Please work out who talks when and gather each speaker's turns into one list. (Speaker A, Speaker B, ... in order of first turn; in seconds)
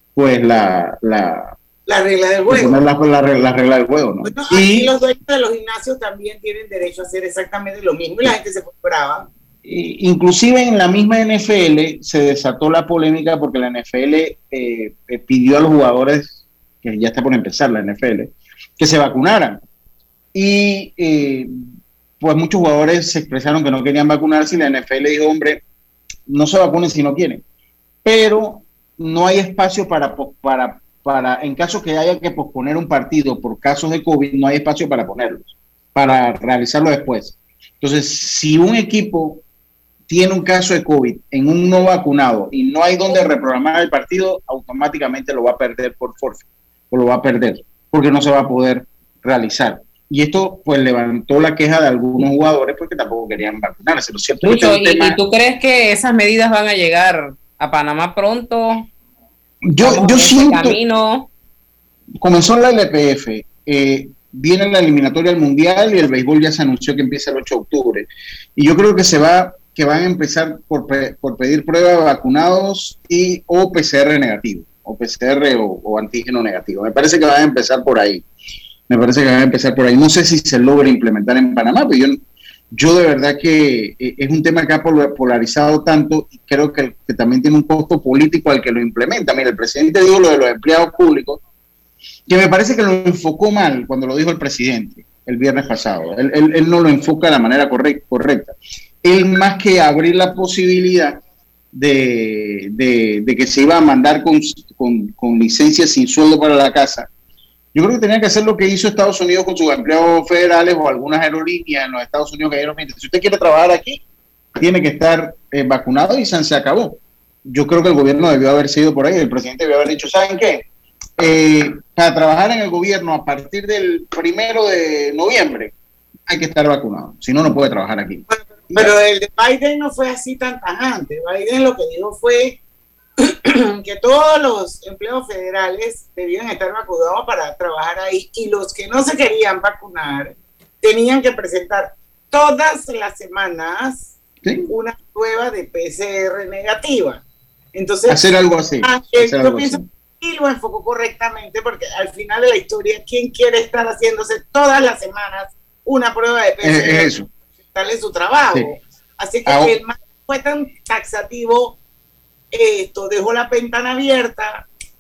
Speaker A: 0.1-1.6, 2.5-4.9, 9.7-19.6, 20.3-21.6, 22.2-25.6, 26.3-27.4, 28.0-39.4, 40.1-55.2, 59.7-60.8, 62.2-78.2, 78.9-82.2, 82.7-91.4, 92.3-101.2, 101.7-107.1, 107.7-114.0, 114.6-120.7, 121.2-125.7, 126.3-128.9, 144.4-144.7, 148.1-149.8, 156.6-157.3, 159.5-159.8
Speaker B: 1.9-2.8, 4.2-9.3, 128.3-132.6, 133.2-144.2, 144.7-147.2, 147.7-157.1, 157.7-161.8, 162.5-164.7
Speaker C: 54.4-58.9, 59.8-61.3